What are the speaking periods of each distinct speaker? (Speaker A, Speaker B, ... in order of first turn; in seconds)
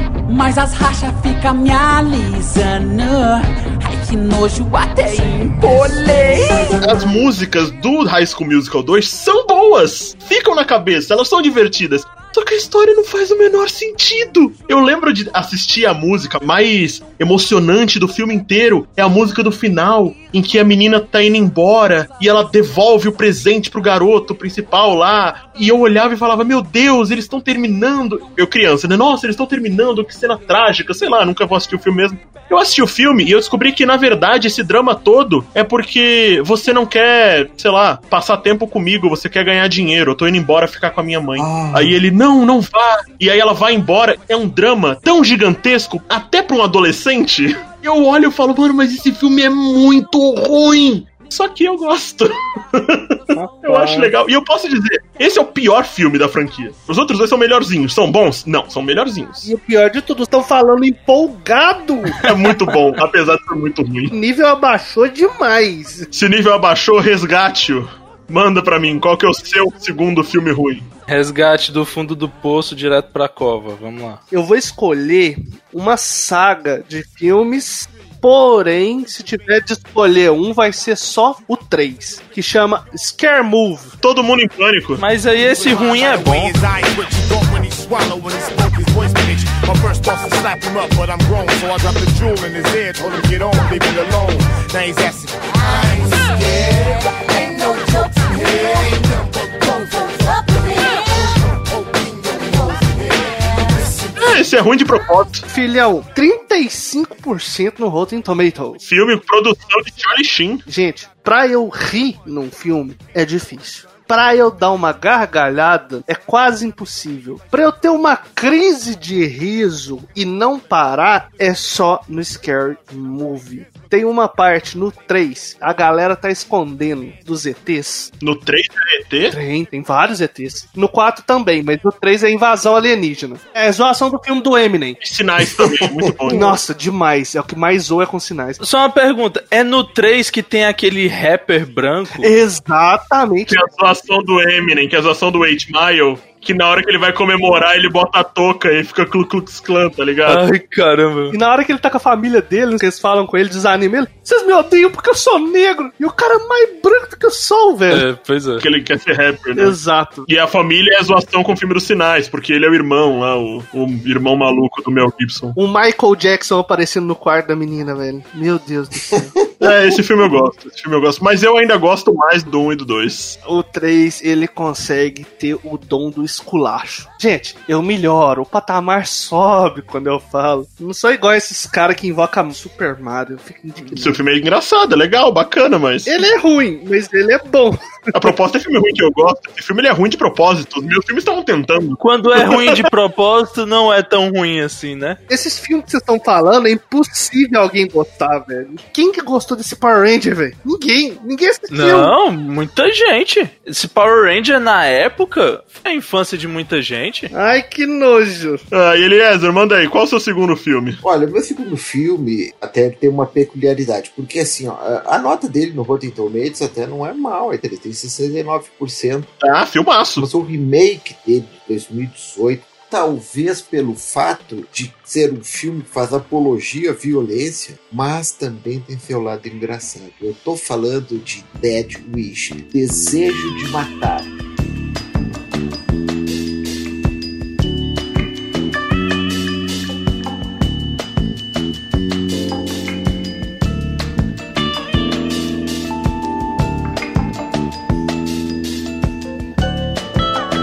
Speaker A: 0.3-7.0
Speaker B: 6.8-59.5, 62.2-64.1, 66.1-70.9, 84.0-85.0, 104.2-105.5, 108.8-110.6, 128.2-129.3, 135.0-136.6, 143.5-150.4, 158.6-165.6, 169.6-173.4, 183.9-186.2, 188.1-192.8, 208.7-211.0, 219.4-220.2
Speaker C: 41.4-42.0, 169.0-169.3, 211.0-219.3, 220.2-234.3
Speaker D: 53.3-54.1, 59.4-62.2, 64.1-66.1, 74.3-83.9, 105.5-108.8, 110.7-128.1, 129.3-135.0, 136.3-138.6, 142.2-143.6, 151.3-158.1, 159.6-160.3, 165.6-169.3, 173.4-184.2, 186.1-188.3, 195.3-202.1, 207.3-208.6
Speaker E: 71.1-74.2, 85.0-86.5, 138.6-142.3, 150.3-151.4, 157.9-158.6, 192.0-195.2, 201.7-207.3
Speaker F: 85.4-104.1